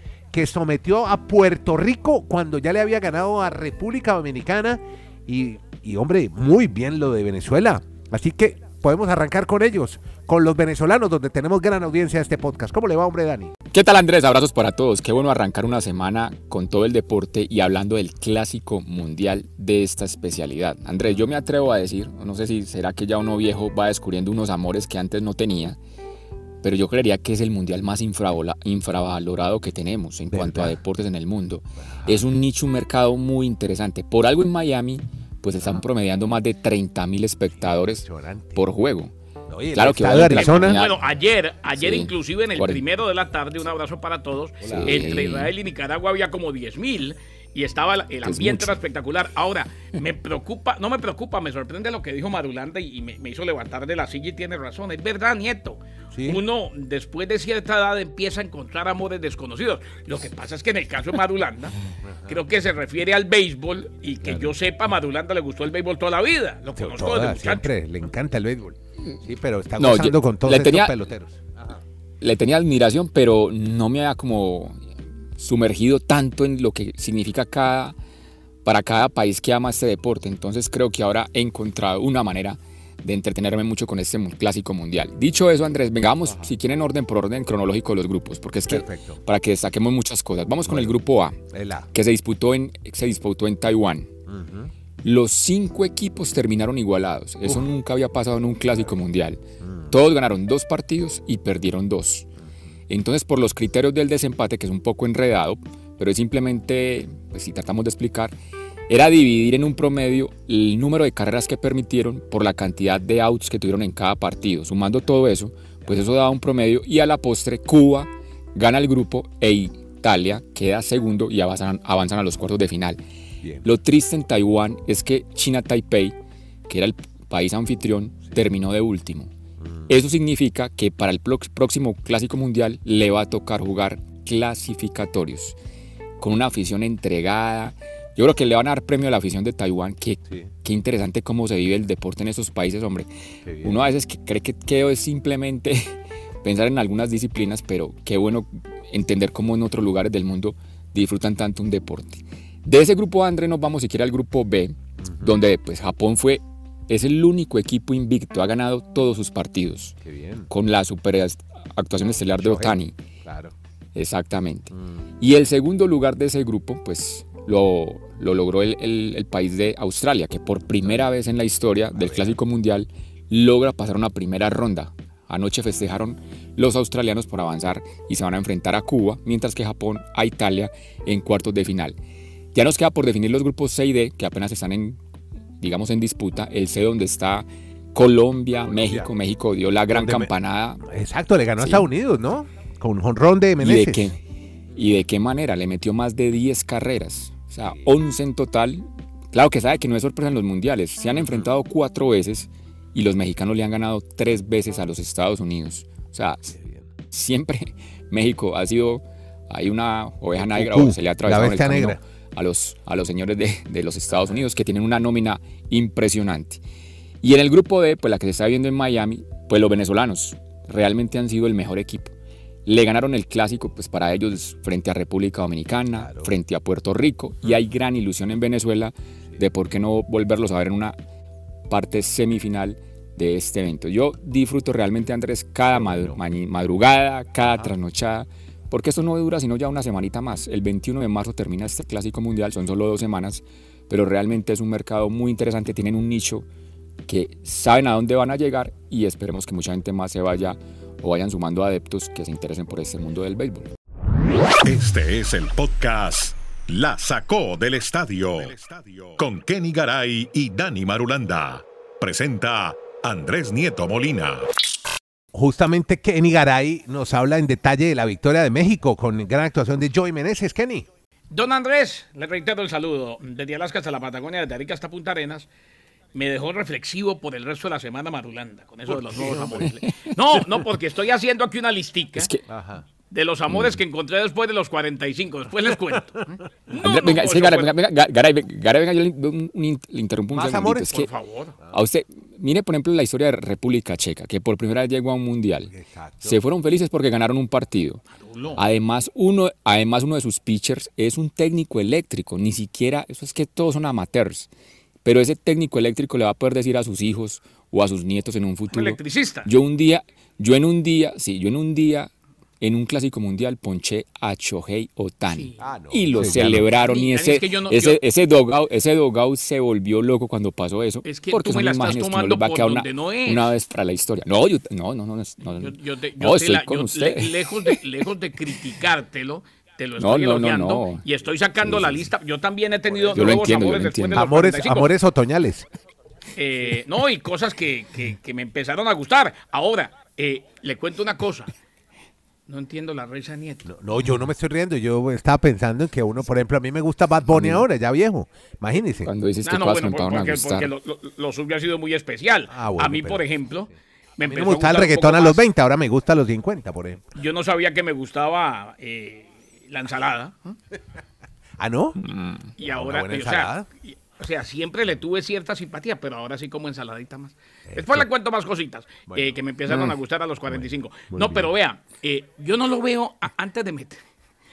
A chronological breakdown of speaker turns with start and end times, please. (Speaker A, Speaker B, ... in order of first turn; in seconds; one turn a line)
Speaker A: 0.3-13.5
Speaker B: 13.7-25.8
Speaker B: 26.6-39.1
Speaker A: 30.3-30.8
Speaker A: 31.8-32.2
Speaker A: 37.6-38.6
Speaker A: 39.5-40.8
Speaker B: 39.7-41.0
Speaker C: 40.3-67.7
Speaker B: 41.7-42.8
Speaker A: 44.6-45.0
Speaker B: 44.7-45.5
Speaker B: 48.2-48.8
Speaker A: 56.1-56.4
Speaker A: 62.0-62.4
Speaker A: 64.2-64.5
Speaker A: 66.7-71.8
Speaker B: 69.8-70.9
Speaker B: 72.2-74.8
Speaker B: 75.4-77.9
Speaker B: 78.6-91.4
Speaker A: 86.2-86.5
Speaker A: 88.7-89.2
Speaker A: 90.7-91.9
Speaker B: 91.9-94.1
Speaker A: 94.3-94.7
Speaker B: 95.0-102.2
Speaker A: 99.6-100.0
Speaker B: 102.9-108.3
Speaker B: 108.9-123.0
Speaker A: 123.4-123.7
Speaker B: 123.6-126.1
Speaker B: 126.7-129.3
Speaker A: 129.6-129.9
Speaker B: 129.9-135.6
Speaker B: 136.2-143.1
Speaker A: 143.4-143.8
Speaker B: 143.6-159.9
Speaker A: 155.0-155.3
Speaker A: 160.0-160.5
Speaker B: 160.5-162.9
Speaker A: 162.4-163.5
Speaker B: 163.9-182.0
Speaker A: 171.9-172.4
Speaker B: 182.5-185.0
Speaker B: 185.6-190.8
Speaker A: 188.7-189.1
Speaker A: 189.9-190.3
Speaker A: 190.8-194.1
Speaker B: 191.6-191.8
Speaker B: 193.6-194.2
Speaker B: 194.8-206.5
Speaker A: 201.2-201.5
Speaker A: 206.5-206.9
Speaker B: 207.1-216.6
Speaker A: 210.3-212.0
Speaker B: 217.2-222.1
Speaker B: 222.7-230.9
Speaker A: 225.9-226.3
Speaker B: 231.7-246.4
Speaker A: 235.7-236.2
Speaker A: 237.4-237.7
Speaker B: 247.1-253.7
Speaker D: 254.6-264.5
Speaker A: 265.3-270.9
Speaker C: 271.3-275.5
Speaker C: 276.1-282.3
Speaker A: 278.9-279.7
Speaker B: 282.1-282.4
Speaker A: 282.5-282.9
Speaker C: 283.1-287.7
Speaker B: 283.5-283.8
Speaker B: 286.8-291.1
Speaker A: 290.3-290.9
Speaker C: 290.9-291.5
Speaker B: 291.7-298.0
Speaker A: 295.7-296.4
Speaker C: 298.1-298.6
Speaker B: 298.6-304.5
Speaker B: 305.0-312.1
Speaker C: 308.7-309.5
Speaker B: 312.6-327.7
Speaker C: 315.3-315.6
Speaker A: 315.6-316.6
Speaker C: 316.2-318.0
Speaker C: 321.0-323.5
Speaker C: 325.6-334.9
Speaker B: 330.0-331.0
Speaker B: 331.6-332.0
Speaker A: 332.9-333.5
Speaker B: 333.1-334.3
Speaker A: 334.1-335.7
Speaker C: 336.4-341.5
Speaker C: 342.5-343.7
Speaker A: 343.6-349.1
Speaker B: 347.3-347.6
Speaker B: 349.0-350.7
Speaker C: 349.4-355.4
Speaker A: 352.5-353.2
Speaker A: 354.2-357.1
Speaker C: 357.1-360.6
Speaker A: 361.6-362.0
Speaker B: 362.0-362.5
Speaker C: 362.6-374.0
Speaker A: 362.6-363.7
Speaker A: 367.7-368.1
Speaker A: 369.1-369.4
Speaker B: 369.7-369.9
Speaker A: 370.5-371.5